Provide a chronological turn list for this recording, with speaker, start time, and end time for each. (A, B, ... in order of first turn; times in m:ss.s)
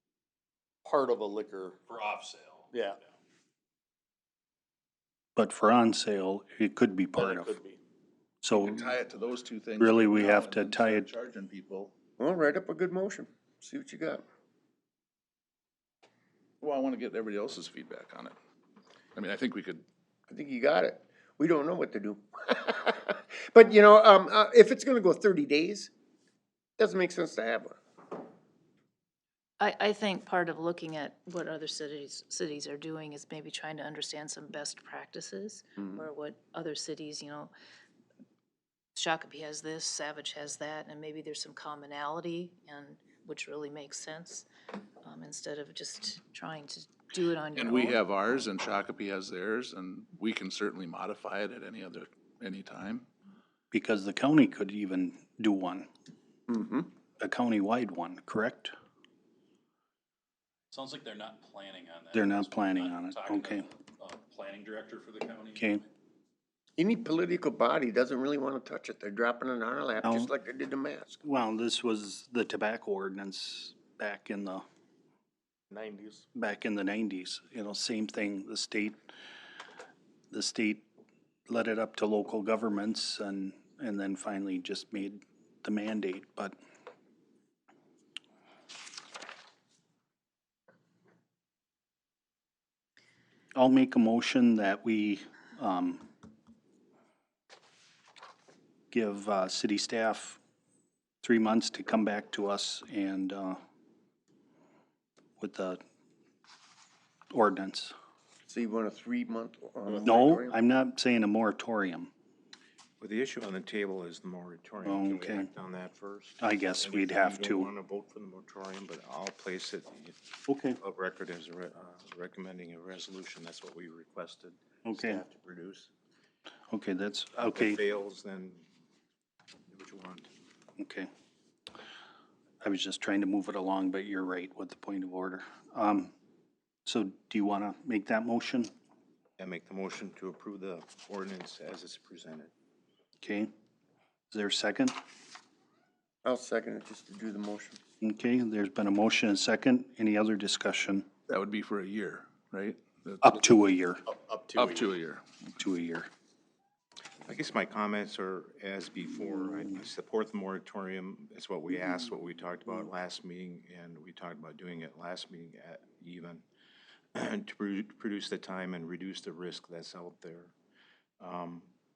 0:00.8-0:01.8 A
0:01.9-0:02.7 B
0:02.7-0:03.0 A
0:05.4-0:07.6 C
0:07.2-0:07.8 A
0:08.4-0:08.8 C
0:08.8-0:11.9 D
0:09.8-0:11.1 C
0:12.2-0:14.2 E
0:16.6-0:18.4 D
0:19.2-0:19.8 D
0:20.3-0:25.9 E
0:26.8-0:27.8 E
0:29.6-0:37.5 F
0:39.0-0:44.5 F
0:45.0-0:48.0 F
0:47.6-0:53.1 D
0:53.7-0:55.9 C
0:56.5-0:56.9 E
0:57.2-0:58.7 C
1:00.7-1:05.8 B
1:02.1-1:03.7 C
1:05.6-1:05.8 C
1:06.8-1:11.2 E
1:10.0-1:10.3 C
1:11.2-1:14.6 C
1:15.7-1:16.2 A
1:16.4-1:19.0 C
1:20.3-1:20.9 C
1:21.5-1:26.6 C
1:33.6-1:36.0 C
1:38.9-1:40.4 C
1:41.2-1:43.6 C
1:45.4-1:45.8 C
1:47.3-1:47.9 C
1:48.5-1:50.6 E
1:50.0-1:52.1 C
1:53.0-2:00.2 G
1:54.8-1:55.5 C
1:56.4-1:57.7 C
2:00.5-2:00.8 C
2:00.8-2:05.9 G
2:04.9-2:05.2 C
2:06.7-2:07.8 C
2:07.4-2:08.6 G
2:09.7-2:10.3 G
2:10.8-2:11.1 C
2:12.6-2:16.1 C
2:16.9-2:18.7 C
2:19.4-2:22.5 G
2:23.2-2:23.5 C
2:24.3-2:25.0 C
2:26.2-2:27.8 E
2:28.0-2:31.1 C
2:31.3-2:33.2 D
2:33.2-2:34.0 C
2:34.1-2:35.0 A
2:34.6-2:35.2 D
2:35.6-2:36.1 C
2:37.3-2:46.4 G
2:47.2-2:50.5 G
2:51.2-2:51.7 G